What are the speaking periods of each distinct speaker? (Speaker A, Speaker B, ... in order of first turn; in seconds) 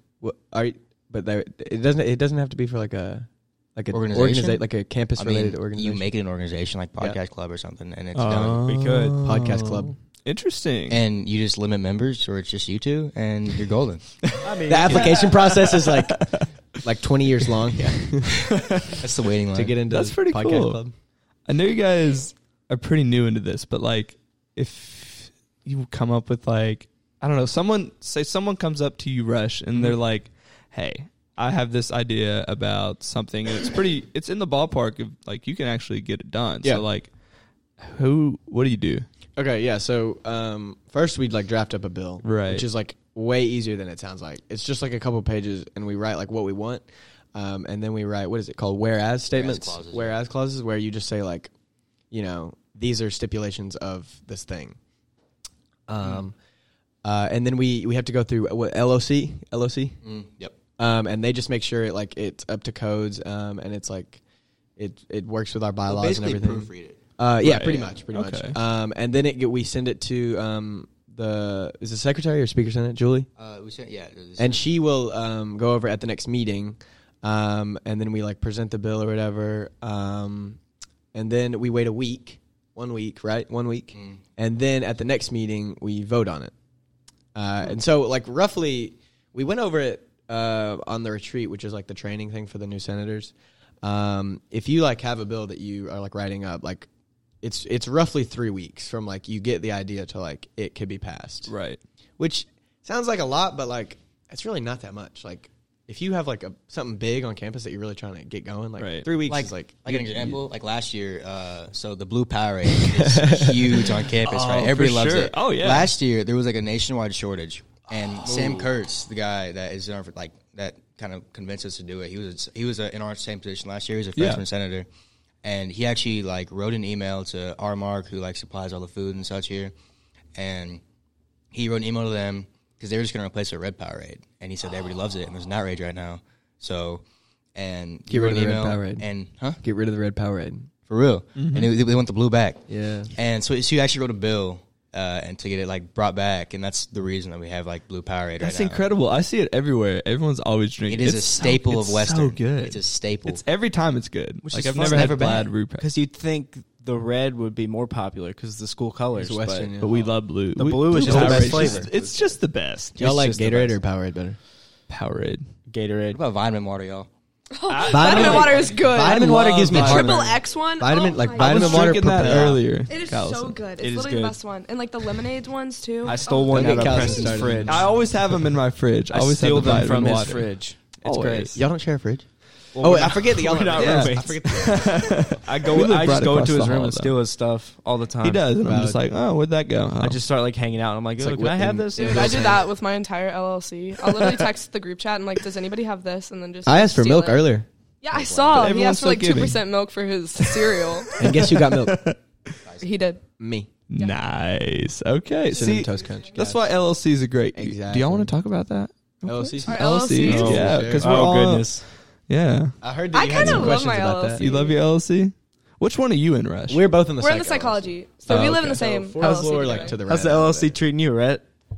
Speaker A: 0.2-6.1, 9.2-9.9, 14.7-18.5, 19.5-20.9, 39.4-51.5, 52.1-54.8, 55.9-56.4, 57.0-60.0, 60.8-64.2, 64.8-73.3, 74.4-80.6, 81.1-86.5, 87.3-96.9, 97.4-101.5, 102.2-110.1, 112.9-113.8, 138.1-139.1, 139.6-140.7, 142.7-143.1, 154.9-155.4, 159.2-160.1, 161.0-161.9, 163.0-164.4, 167.9-172.7, 176.5-177.9, 181.5-182.3, 182.8-185.3, 188.6-189.0, 191.2-192.7, 196.7-198.6, 201.2-202.1, 203.4-203.7, 205.5-206.6, 207.6-208.3, 209.2-211.2, 212.8-214.4, 216.7-220.8
Speaker B: 3.9-4.6, 5.2-8.7, 10.9-14.2, 18.9-19.8, 49.3-50.2, 60.0-60.6, 65.9-67.0, 73.4-74.6, 84.0-84.2, 109.3-124.9, 125.4-129.7, 130.3-130.8, 131.5-137.0, 137.6-139.6, 140.9-148.9, 150.9-153.4, 166.1-167.1
Speaker C: 8.1-11.0, 14.3-16.5, 18.5-19.0, 19.9-20.8, 21.5-37.1, 37.8-39.1, 42.2-42.7, 67.4-68.6, 101.5-101.8, 108.8-109.1, 114.2-115.9, 124.2-124.4, 141.4-141.7, 148.4-155.9, 159.8-163.2, 164.9-165.5, 167.7-170.3, 171.4-173.6, 176.8-181.6, 183.6-187.2, 188.2-190.2, 194.1-194.5, 198.5-199.6, 201.2-202.6, 203.9-216.9, 218.3-218.9
Speaker D: 8.6-9.2, 14.4-15.4, 154.4-159.8, 160.6-162.3, 163.0-163.7, 165.7-166.2, 173.8-174.4, 176.0-178.4, 179.1-181.6, 182.8-184.6, 185.4-188.5, 190.0-192.6, 210.2-211.9, 219.2-221.4
Speaker E: 167.5-177.4, 192.0-197.5, 198.0-201.2, 202.8-203.2, 209.6-210.7, 213.1-214.8, 217.2-220.0